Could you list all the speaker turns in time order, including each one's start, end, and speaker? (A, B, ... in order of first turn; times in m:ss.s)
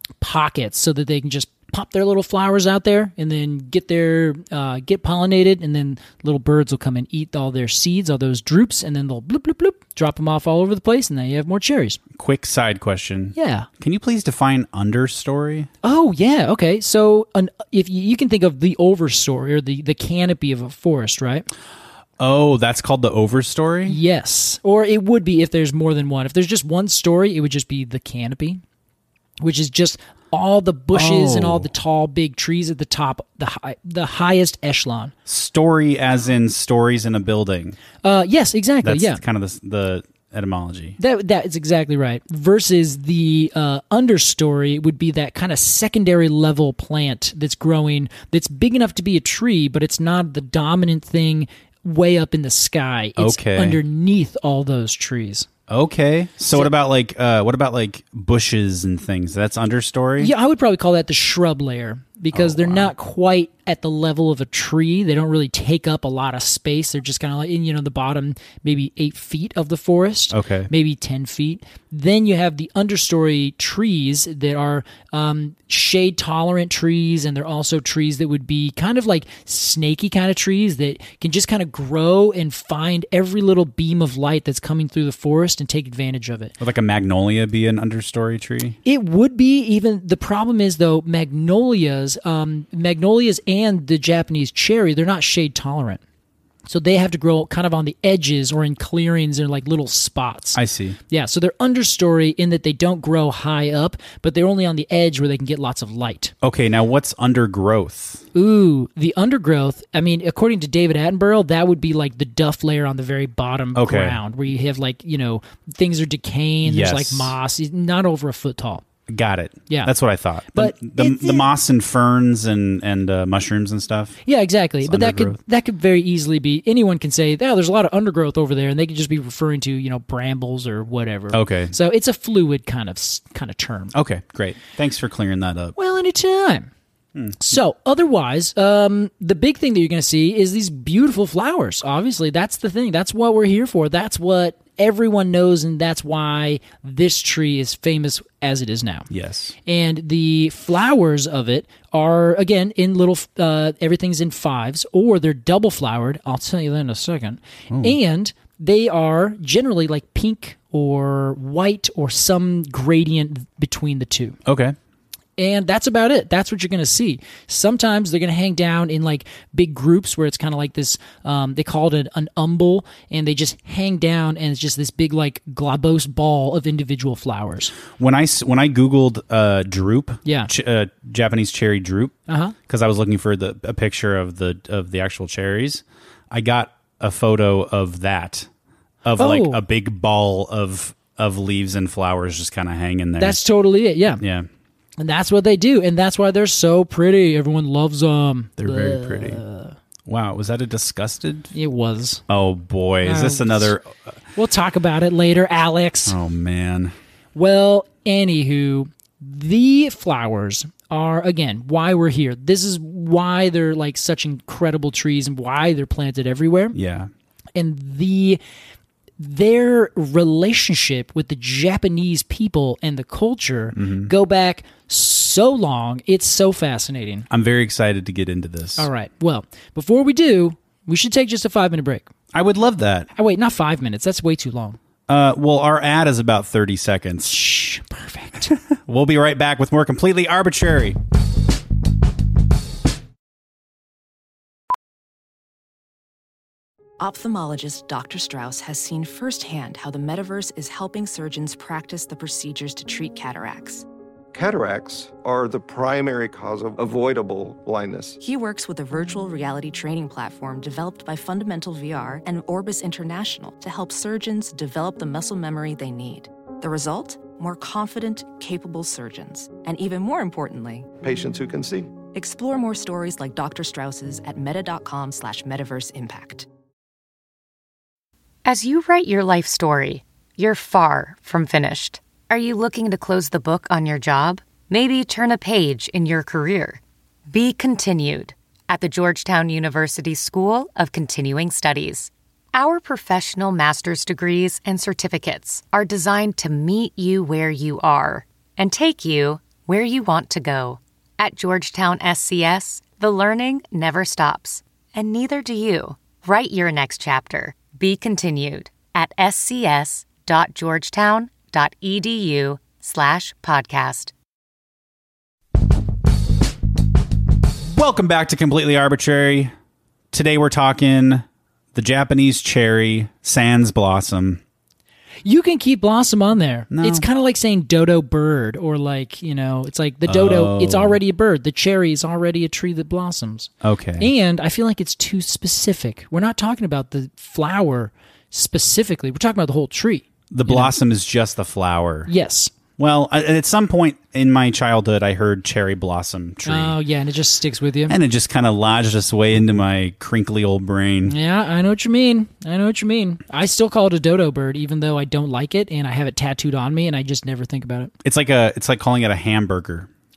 0:00.2-0:12.0 A
0:12.2-0:15.7 B
0:13.4-0:13.7 A
0:15.8-0:21.5 A
0:22.2-0:24.0 B
0:23.9-0:28.6 A
0:29.4-0:35.1 A
0:30.9-0:31.7 B
0:35.3-0:37.8 B
0:38.0-0:39.2 A
0:38.8-0:41.0 B
0:41.0-0:55.5 A
0:53.2-0:53.8 B
0:55.7-1:00.3 B
1:00.2-1:26.6 A
1:02.3-1:02.9 B
1:10.3-1:10.7 B
1:26.6-1:28.8 B
1:28.8-1:36.0 A
1:36.7-1:46.3 A
1:40.6-1:41.0 B
1:46.4-1:48.3 B
1:48.3-1:58.8 A
1:53.7-1:54.2 B
1:56.6-1:57.4 B
1:59.1-2:04.2 B
2:00.5-2:01.5 A
2:04.2-2:13.9 A
2:04.8-2:05.4 B
2:11.3-2:11.7 B
2:13.9-2:15.8 B
2:15.8-2:16.7 A
2:17.2-2:17.4 B
2:17.4-2:29.1 A
2:29.1-2:29.6 B
2:29.7-2:44.4 A
2:37.7-2:38.0 B
2:44.5-2:44.8 B
2:45.4-2:57.8 A
2:58.0-3:02.2 B
3:00.2-3:00.5 A
3:02.3-3:02.6 A
3:02.7-3:08.5 B
3:09.0-3:13.4 B
3:09.2-3:09.6 A
3:13.2-3:14.2 A
3:14.2-3:14.5 B
3:15.0-3:19.8 A
3:18.6-3:19.4 B
3:20.1-3:21.5 B
3:21.5-3:22.2 A
3:22.3-3:24.2 B
3:23.0-3:23.8 A
3:24.4-3:26.2 A
3:26.1-3:26.9 B
3:27.4-3:36.8 A
3:36.7-3:37.1 B
3:37.6-3:38.4 A
3:39.2-3:47.3 A
3:43.8-3:44.1 B
3:47.3-3:48.9 B
3:48.8-3:52.1 A
3:52.3-3:53.1 B
3:53.2-3:54.8 A
3:55.1-3:57.4 B
3:57.2-3:58.5 A
3:58.5-4:01.0 B
4:07.0-4:13.8 C
4:14.3-4:18.2 D
4:18.2-4:30.9 C
4:31.0-4:32.0 D
4:32.0-4:36.5 C
4:38.4-5:14.1 E
5:17.7-5:19.5 B
5:20.1-5:24.4 B
5:25.2-5:40.7 A
5:26.7-5:27.1 B
5:30.1-5:31.0 B
5:33.6-5:34.1 B
5:40.3-5:42.1 B
5:42.1-5:42.5 A
5:42.8-5:46.8 B
5:46.4-5:48.0 A
5:47.9-5:51.2 B
5:51.1-5:57.9 A
5:58.0-5:59.9 B